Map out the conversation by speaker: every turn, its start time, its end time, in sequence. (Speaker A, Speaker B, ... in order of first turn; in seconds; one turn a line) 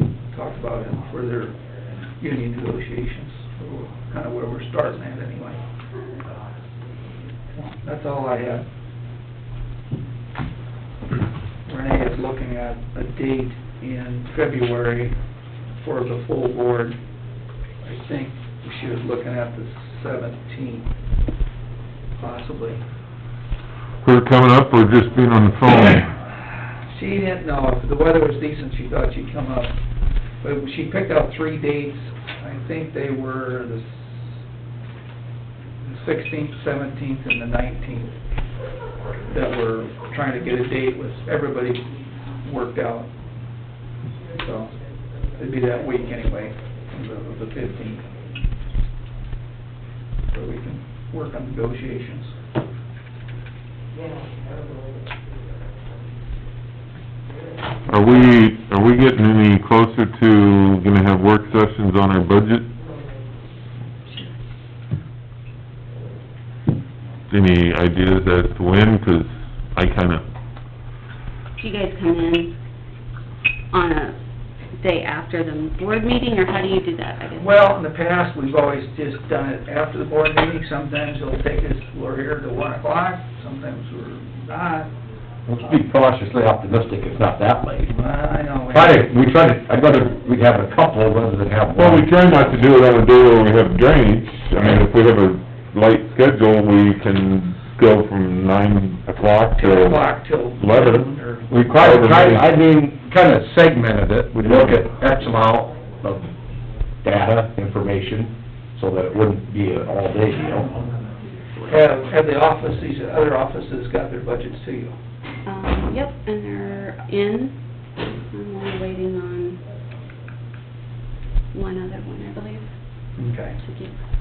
Speaker A: 0.3-1.6
Speaker A: 2.2-5.6
Speaker A: 7.5-8.7
Speaker A: 11.7-15.2
Speaker A: 15.8-17.0
Speaker A: 17.8-20.9
Speaker A: 22.2-22.8
Speaker B: 24.0-26.1
Speaker A: 26.9-29.8
Speaker A: 30.4-34.3
Speaker A: 35.8-38.2
Speaker A: 39.3-43.1
Speaker A: 44.3-44.8
Speaker A: 45.3-48.1
Speaker A: 50.3-52.4
Speaker B: 57.9-62.7
Speaker B: 67.3-70.3
Speaker C: 71.6-72.5
Speaker C: 73.7-74.2
Speaker C: 74.8-77.6
Speaker A: 77.4-84.9
Speaker D: 85.5-87.9
Speaker A: 87.9-89.1
Speaker D: 88.7-92.1
Speaker B: 91.8-102.4
Speaker A: 99.6-101.5
Speaker D: 101.5-106.3
Speaker B: 104.4-104.8
Speaker D: 107.0-110.7
Speaker A: 111.7-115.0
Speaker C: 115.5-119.6
Speaker C: 121.5-124.0
Speaker A: 123.2-123.6